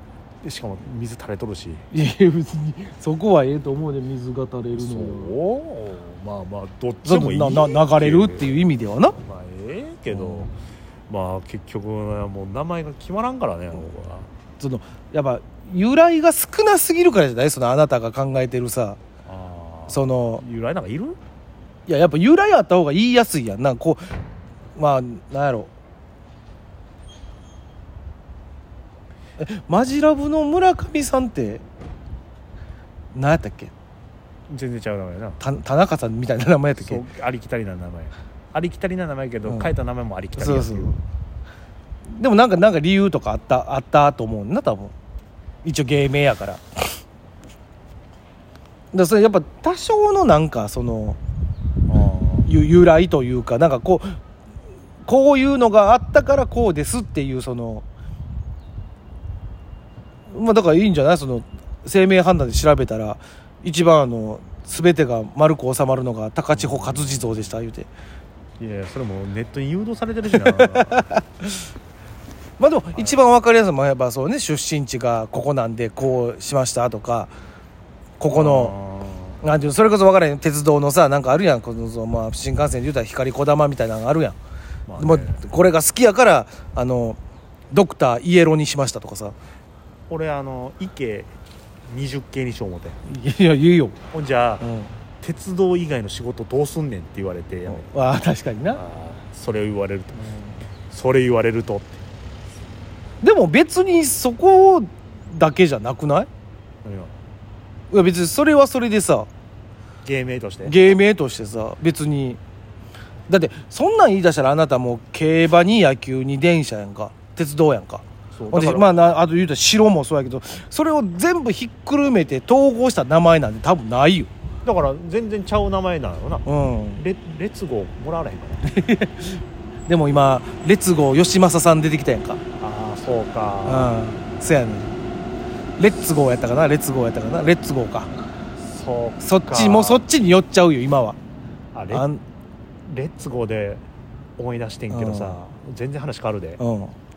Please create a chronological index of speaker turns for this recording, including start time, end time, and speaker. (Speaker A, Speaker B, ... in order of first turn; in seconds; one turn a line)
Speaker A: 0.4-1.9
Speaker B: 1.9-5.3
Speaker A: 4.8-8.7
Speaker B: 7.0-9.2
Speaker A: 9.2-10.5
Speaker B: 10.1-10.5
Speaker A: 11.1-14.3
Speaker B: 14.6-19.0
Speaker A: 19.2-21.2
Speaker B: 19.9-20.4
Speaker B: 21.9-24.0
Speaker B: 24.8-25.7
Speaker B: 29.4-31.6
Speaker B: 33.1-33.7
Speaker A: 34.5-35.4
Speaker B: 35.4-37.0
Speaker A: 36.8-41.0
Speaker B: 40.4-41.0
Speaker B: 42.1-44.9
Speaker B: 45.6-46.6
Speaker B: 48.9-51.2
Speaker A: 51.9-52.5
Speaker B: 52.5-54.2
Speaker B: 55.0-57.9
Speaker B: 60.3-67.9
Speaker A: 66.5-67.6
Speaker A: 68.6-71.1
Speaker B: 70.3-71.5
Speaker B: 72.6-77.3
Speaker B: 78.2-78.7
Speaker A: 78.3-79.4
Speaker B: 79.4-84.4
Speaker A: 84.9-85.5
Speaker B: 85.0-87.2
Speaker B: 87.7-89.3
Speaker A: 90.1-91.3
Speaker A: 91.9-93.0
Speaker B: 93.1-94.0
Speaker A: 94.1-94.7
Speaker B: 94.6-94.9
Speaker A: 95.2-97.9
Speaker B: 97.7-98.8
Speaker A: 98.7-102.0
Speaker B: 103.2-106.3
Speaker A: 106.8-107.2
Speaker B: 107.9-109.3
Speaker A: 110.0-110.9
Speaker B: 110.7-112.4
Speaker B: 113.3-124.3
Speaker A: 118.4-119.0
Speaker A: 124.6-128.7
Speaker B: 126.5-127.0
Speaker B: 128.6-132.4
Speaker A: 132.6-134.0
Speaker B: 133.7-135.0
Speaker B: 135.8-138.1
Speaker A: 138.6-140.1
Speaker B: 139.2-141.2
Speaker A: 141.7-142.1
Speaker B: 141.9-142.2
Speaker A: 142.9-143.8
Speaker A: 144.4-146.6
Speaker B: 144.9-145.4
Speaker B: 146.6-146.9